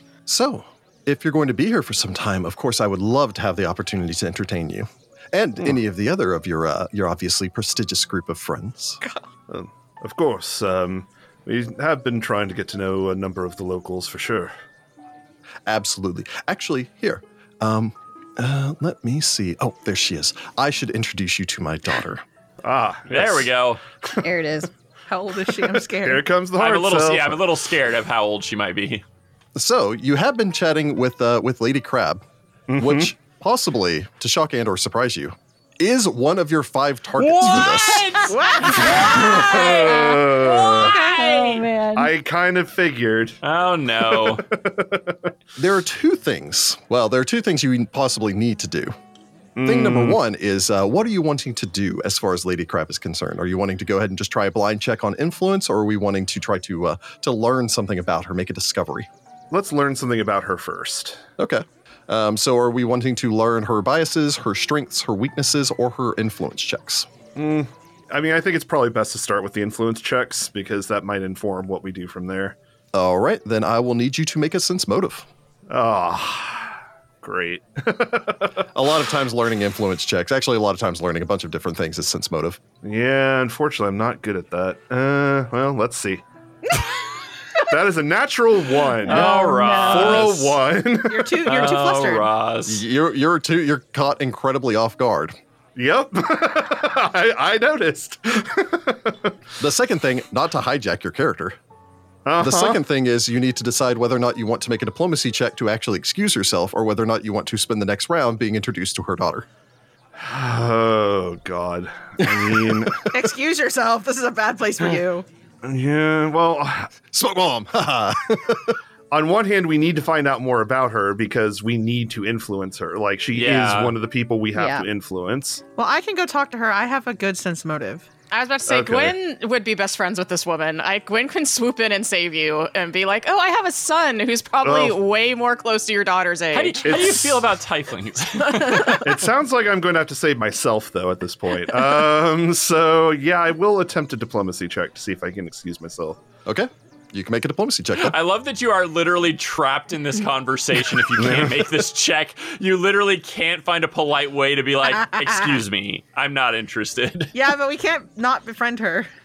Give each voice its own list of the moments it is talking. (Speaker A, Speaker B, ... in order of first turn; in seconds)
Speaker A: 0.3-9.0, 15.7-22.2, 29.6-32.2, 32.8-38.2, 45.6-48.9, 49.6-59.1, 61.4-67.1, 72.9-75.3, 78.7-82.6, 92.7-95.3, 99.6-101.5, 102.4-109.5, 117.1-118.7, 146.4-148.2
Speaker B: 9.5-14.5, 22.6-23.5, 25.5-27.4, 32.7-33.1, 38.8-40.9, 41.9-43.4, 44.0-45.2, 49.5-50.2, 59.5-61.2, 67.3-72.6, 75.7-78.7, 82.8-86.2, 87.6-91.4, 95.8-99.3, 102.2-102.8, 110.2-113.1, 115.6-116.9, 119.1-125.6, 128.7-129.1, 134.6-135.0, 136.8-137.4, 138.9-146.2, 151.2-151.6
Speaker C: 23.1-23.8, 26.6-29.0, 37.2-41.7, 43.4-44.4, 89.0-90.6, 91.4-92.8, 123.3-124.0, 136.5-139.1, 148.0-157.3
Speaker D: 24.2-24.7, 38.8-42.1, 89.0-90.4, 124.5-124.9
Speaker E: 25.1-26.3, 38.3-39.2, 91.0-92.3, 113.1-115.2, 125.8-128.1, 155.0-155.6, 157.3-159.1
Speaker F: 128.3-137.2